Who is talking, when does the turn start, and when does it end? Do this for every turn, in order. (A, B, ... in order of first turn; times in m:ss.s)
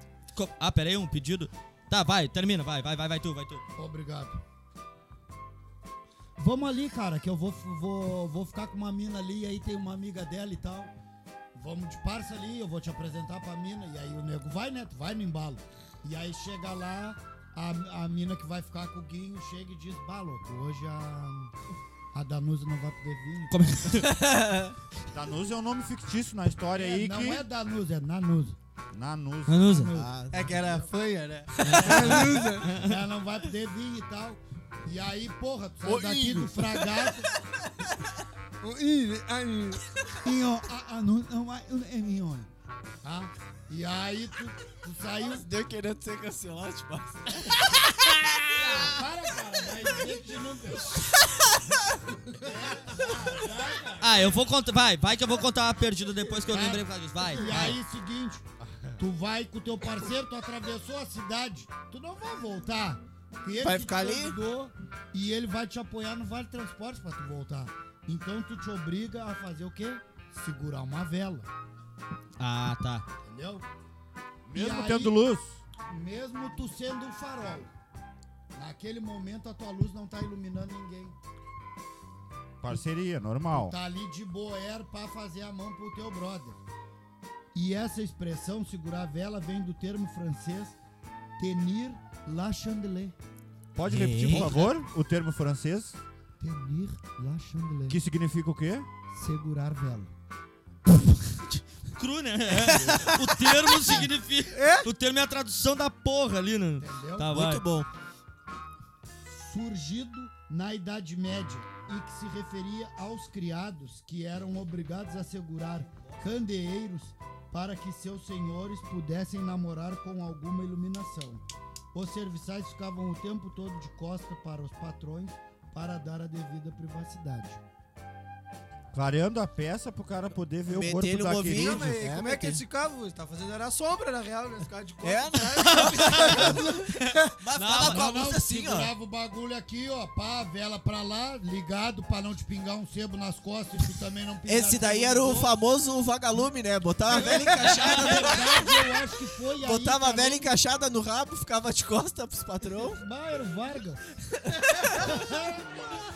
0:00.3-0:03.6 A
0:03.8-0:04.4 B
0:06.4-0:10.9 B
0:11.5-0:21.5 B
0:22.1-0:24.0 B
0:23.5-0:24.2 A
0:24.2-0:24.7 C
0:25.1-0:27.4 D
0:26.7-0:28.6 B
0:28.9-0:29.8 D
0:29.5-0:29.9 A
0:29.5-0:30.9 B
0:29.9-0:30.4 C
0:30.3-0:32.7 E
0:31.6-0:33.0 A
0:31.8-0:37.3 B
0:35.8-0:36.6 E
0:38.6-0:39.8 E
0:40.2-0:42.5 B
0:43.0-0:45.5 B
0:45.2-0:47.6 C
0:48.5-0:51.0 B
0:52.4-0:54.0 B
0:54.0-0:57.8 A
0:56.5-0:58.4 B
0:59.0-1:11.5 B
1:03.6-1:04.4 C
1:12.4-1:13.0 A
1:13.2-1:13.6 B
1:14.4-1:15.6 D
1:14.5-1:15.2 B
1:15.8-1:17.7 B
1:18.5-1:21.2 B
1:22.6-1:23.8 D
1:23.5-1:26.6 B
1:27.5-1:30.8 B
1:31.4-1:33.1 B
1:33.7-1:36.0 D
1:33.9-1:34.7 A
1:36.4-1:38.0 B
1:37.9-1:38.9 D
1:39.1-1:40.1 B
1:40.9-1:47.6 A
1:42.7-1:43.1 D
1:44.5-1:44.9 E
1:46.8-1:47.3 B
1:47.3-1:47.9 C
1:49.3-2:07.6 B
2:08.9-2:11.9 D
2:10.7-2:12.6 C
2:11.5-2:17.3 E
2:15.0-2:16.6 C
2:15.6-2:18.1 A
2:17.4-2:18.9 C
2:17.8-2:25.6 B
2:24.5-2:28.7 C
2:27.1-2:30.5 B
2:29.6-2:33.0 C
2:32.8-2:34.0 B
2:35.0-2:35.8 B